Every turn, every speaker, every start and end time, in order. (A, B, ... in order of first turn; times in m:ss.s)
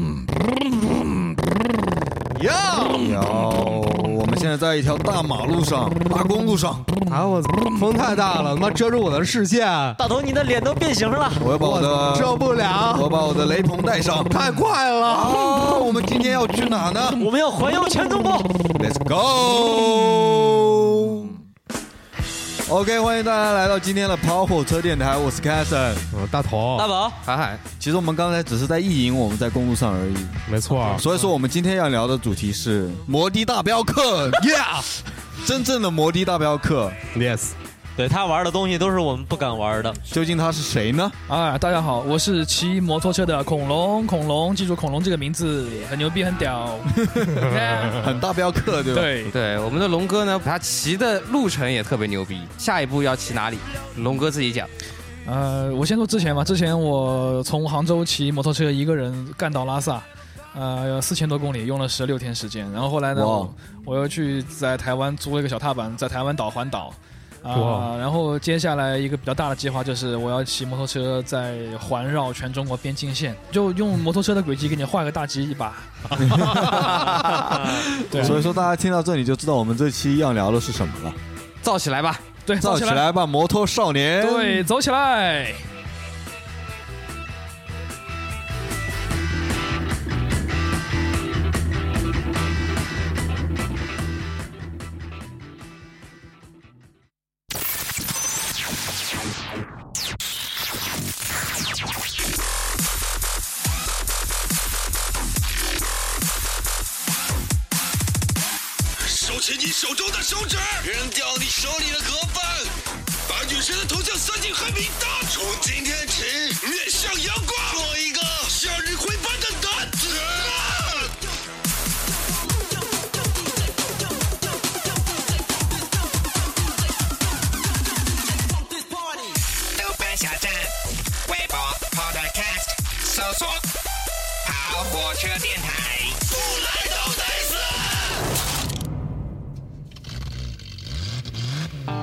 0:02.4-0:03.0 A
0:03.0-0:06.9 B
0:07.1-0:10.0 A
0:10.0-0:11.5 C
0:11.4-0:14.4 B
0:11.6-0:13.1 A
0:14.3-0:15.3 A
0:15.0-0:17.3 B
0:15.4-0:15.7 C
0:17.1-0:18.6 C
0:18.8-0:21.4 B
0:22.7-0:26.0 B
0:26.1-0:26.9 A
0:26.8-0:27.2 C
0:27.2-0:27.6 D
0:27.8-0:34.9 B
0:30.5-0:31.1 A
0:35.4-0:37.0 B
0:37.1-0:37.5 A
0:38.0-0:40.0 C
0:40.1-0:41.2 B
0:41.3-0:48.0 E
0:47.0-0:49.2 B
0:47.4-0:48.0 A
0:48.9-0:49.3 E
0:49.3-0:54.7 D
0:55.2-1:18.4 E
1:03.1-1:03.5 B
1:07.5-1:07.9 A
1:16.2-1:21.2 B
1:21.6-1:22.2 D
1:22.4-1:23.1 E
1:22.6-1:24.7 B
1:24.2-1:25.6 E
1:49.0-1:52.7 F
1:53.3-2:01.1 F
2:09.7-2:10.7 G
2:11.2-2:13.6 G
2:14.4-2:16.2 G
2:16.3-2:18.2 F